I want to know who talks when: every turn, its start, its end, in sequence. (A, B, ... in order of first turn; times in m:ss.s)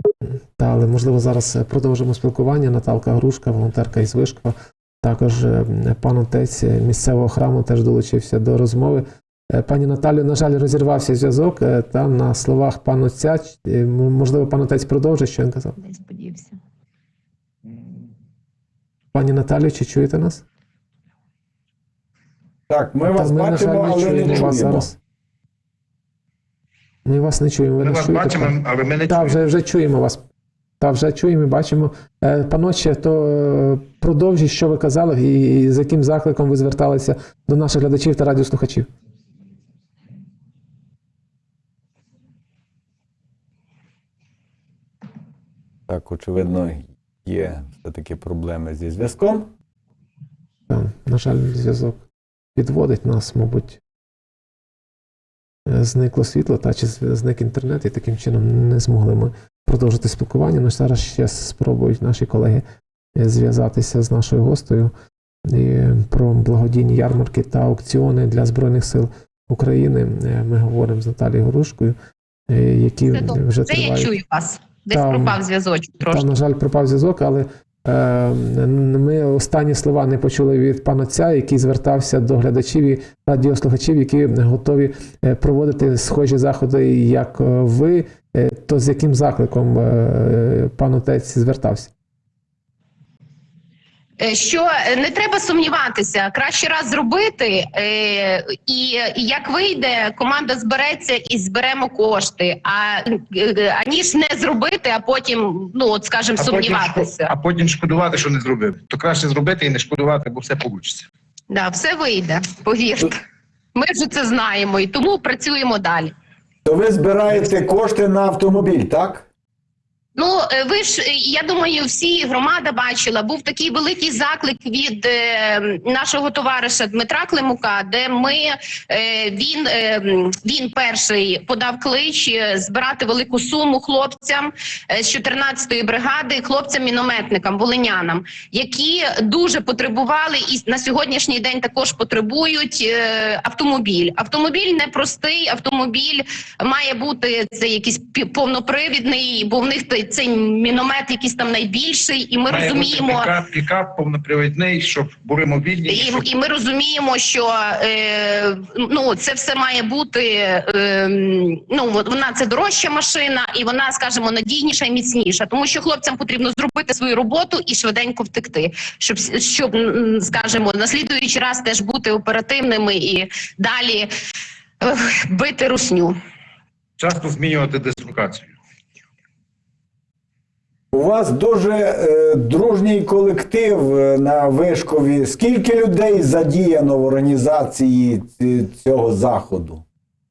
0:00.6-0:15.8 A
0:15.8-0:16.5 B
0:19.1-0:20.4 A
0:22.7-0:24.9 C
0:23.0-0:25.0 A
0:27.1-0:28.5 A
0:27.8-0:29.5 D
0:29.1-0:30.2 A
0:30.8-0:38.9 A
0:45.9-0:49.5 C
0:50.7-0:52.0 A
0:52.6-0:53.8 A
0:55.7-1:02.6 A
1:03.2-1:04.9 A
1:05.5-1:12.0 A
1:12.5-1:14.1 A
1:13.1-1:16.3 B
1:14.9-1:15.4 A
1:16.1-1:31.9 A
1:34.2-1:47.3 B
1:46.4-1:51.1 D
1:51.5-1:53.2 B
1:53.8-1:56.1 B
1:56.6-1:59.3 C
2:00.2-2:33.3 B
2:32.5-2:36.3 D
2:35.9-2:54.1 B
2:54.8-2:56.2 B
2:57.0-2:58.5 D
3:00.9-3:09.8 C